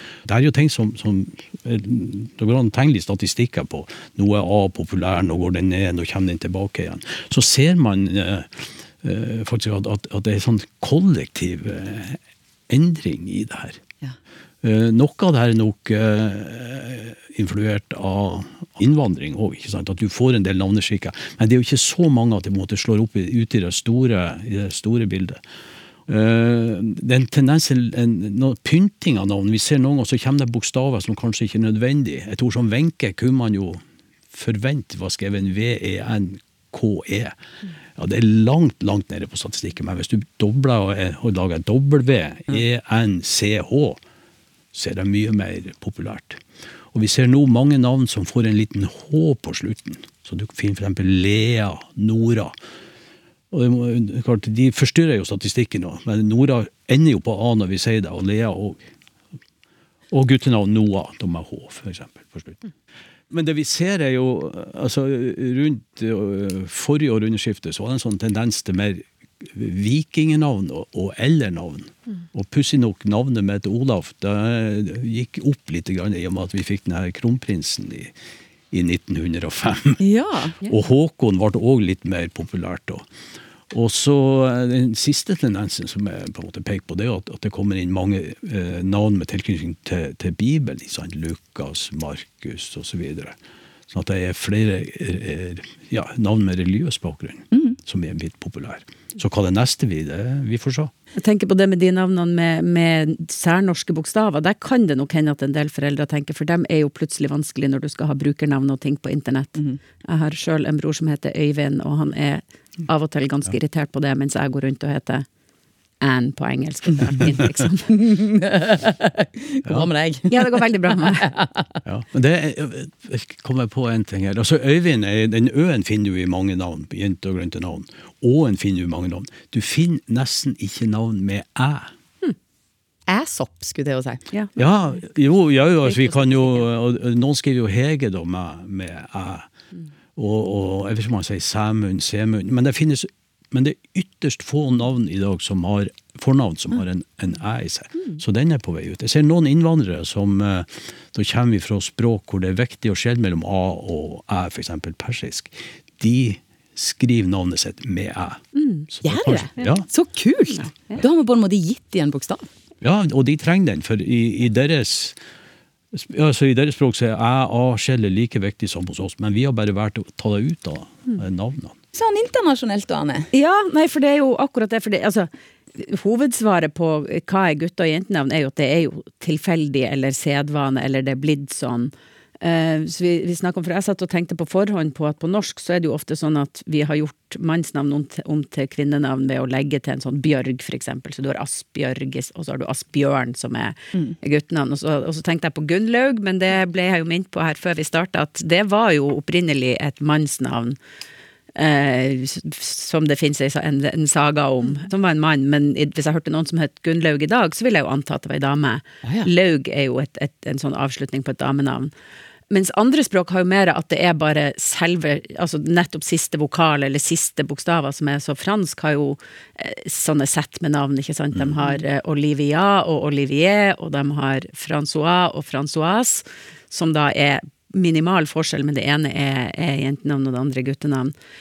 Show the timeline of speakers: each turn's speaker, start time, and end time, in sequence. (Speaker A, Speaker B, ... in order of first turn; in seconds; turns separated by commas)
Speaker A: 0.2-13.8, Speaker A: 14.6-25.4, Speaker A: 26.1-37.4, Speaker A: 38.0-44.0, Speaker A: 44.7-52.5, Speaker A: 53.5-58.8, Speaker A: 60.1-62.6, Speaker A: 63.3-78.1, Speaker A: 78.7-80.0, Speaker B: 80.0-80.6, Speaker A: 80.6-83.0, Speaker A: 83.7-93.3, Speaker A: 93.9-100.9, Speaker B: 97.5-97.8, Speaker C: 101.2-115.2, Speaker C: 116.0-117.9, Speaker B: 117.9-121.7, Speaker C: 120.3-121.3, Speaker A: 121.8-131.9, Speaker B: 133.1-134.2, Speaker A: 134.6-139.5, Speaker A: 140.2-159.9, Speaker C: 158.5-158.9, Speaker B: 159.0-162.5, Speaker C: 160.5-161.0, Speaker A: 162.8-165.2, Speaker A: 165.9-171.8, Speaker B: 171.9-173.3, Speaker C: 173.3-200.8, Speaker C: 201.5-211.9, Speaker B: 209.0-209.3, Speaker C: 212.5-231.1